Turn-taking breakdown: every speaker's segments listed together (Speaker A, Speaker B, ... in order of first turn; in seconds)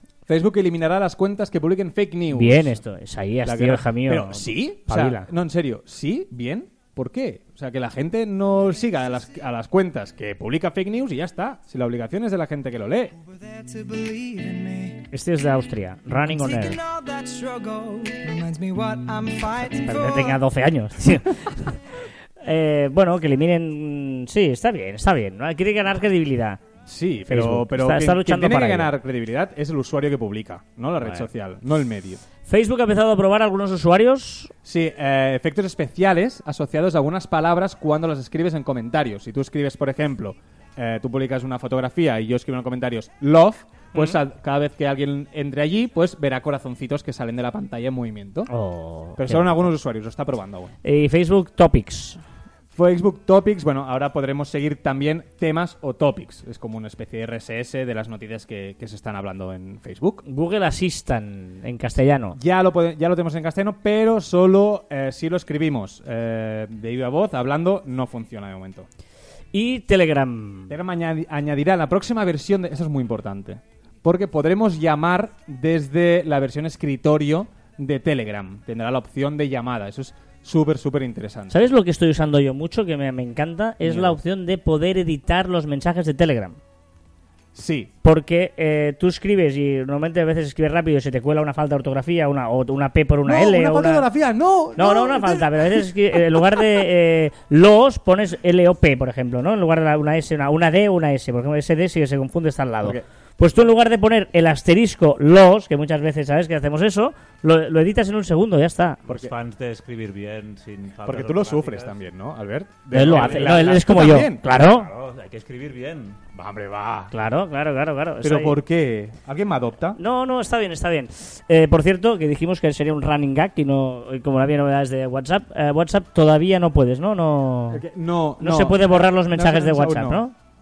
Speaker A: 0.3-2.8, 3.4-13.2, 26.9-32.2, 34.6-48.5, 49.2-50.7, 52.7-60.2, 62.3-68.9, 70.7-81.6, 83.8-84.2, 87.5-87.9, 93.2-96.8, 109.1-109.3, 111.0-114.4, 116.3-117.1, 118.2-120.0, 127.7-130.2
Speaker B: 2.3-5.3, 15.1-16.8, 19.6-21.8, 22.4-26.6, 27.3-28.9, 32.4-34.5, 48.5-49.7, 50.8-52.2, 60.2-62.4, 69.5-70.7, 81.5-86.6, 88.0-94.0, 94.8-109.0, 112.9-114.9, 117.1-118.6, 120.0-127.8, 128.4-130.3
Speaker C: 13.2-15.0, 16.2-20.4
Speaker D: 109.1-112.0, 113.0-116.3